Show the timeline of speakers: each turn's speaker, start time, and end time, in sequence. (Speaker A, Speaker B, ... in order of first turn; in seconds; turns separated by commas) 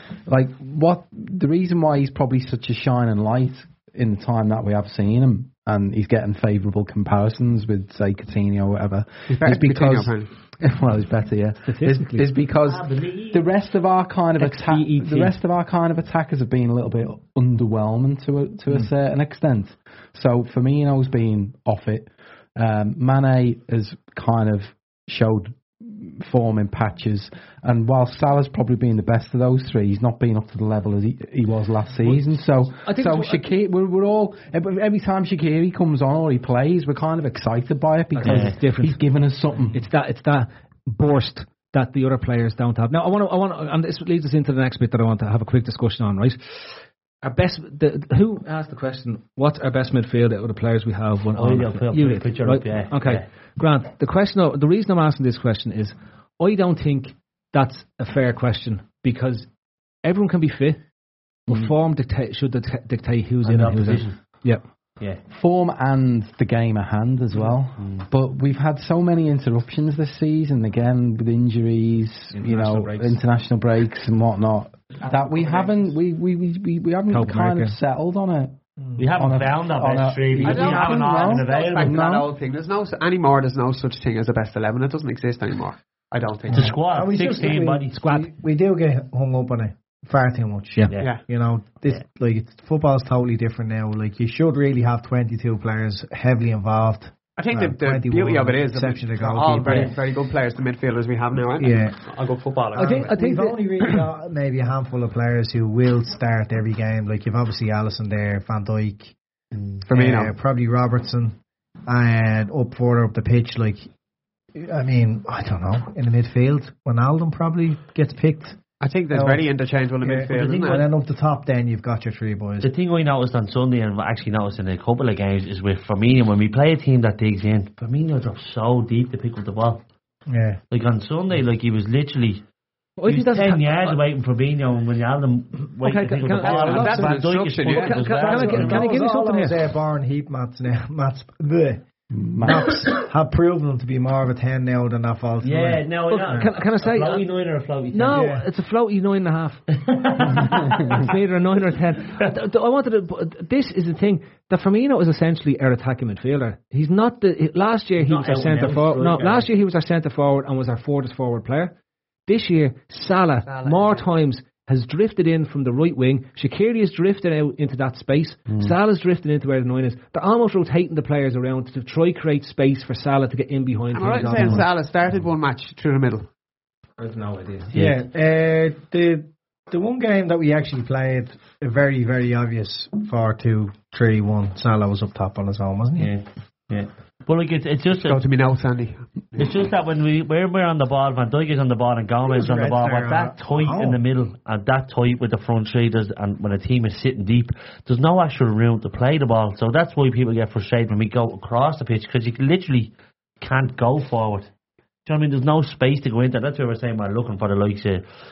Speaker A: 0.3-39.8, Speaker B: 9.3-10.3, Speaker C: 11.6-12.3, Speaker D: 12.7-13.5, Speaker C: 14.4-15.4, Speaker C: 32.8-33.4, Speaker C: 38.1-39.0, Speaker D: 38.2-38.5, Speaker C: 39.7-59.5, Speaker D: 51.4-53.2, Speaker C: 60.0-60.8, Speaker C: 61.5-64.6, Speaker D: 63.5-64.2, Speaker A: 65.3-78.6, Speaker D: 67.8-68.1, Speaker C: 72.3-73.2, Speaker B: 75.1-75.8, Speaker C: 77.1-77.8, Speaker D: 79.0-82.0, Speaker A: 79.2-82.3, Speaker B: 80.4-86.8, Speaker E: 86.5-100.0, Speaker D: 86.5-88.0, Speaker C: 88.0-88.3, Speaker B: 97.4-103.1, Speaker E: 101.6-102.0, Speaker C: 102.7-104.0, Speaker E: 102.7-109.1, Speaker D: 109.5-109.8, Speaker B: 109.9-110.3, Speaker E: 109.9-113.9, Speaker E: 114.5-118.6, Speaker B: 118.8-120.9, Speaker E: 119.1-119.5, Speaker E: 120.0-122.7, Speaker D: 120.3-120.8, Speaker D: 122.6-129.8, Speaker E: 130.3-130.6, Speaker D: 130.7-132.4, Speaker C: 133.0-134.0, Speaker D: 133.1-138.9, Speaker C: 135.8-139.6, Speaker B: 136.4-138.0, Speaker E: 138.2-141.8, Speaker A: 142.1-142.8, Speaker E: 142.4-146.5, Speaker D: 145.4-148.3, Speaker C: 146.1-147.2, Speaker C: 147.9-149.6, Speaker E: 148.1-148.4, Speaker D: 149.7-151.1, Speaker C: 150.2-161.7, Speaker D: 158.0-159.5, Speaker C: 162.3-174.7, Speaker B: 163.4-164.1, Speaker A: 168.5-168.7, Speaker B: 173.9-176.3, Speaker C: 177.0-177.7, Speaker E: 177.7-186.1, Speaker D: 186.0-188.2, Speaker B: 187.9-189.4, Speaker D: 189.4-204.5, Speaker E: 192.2-194.0, Speaker D: 205.1-208.1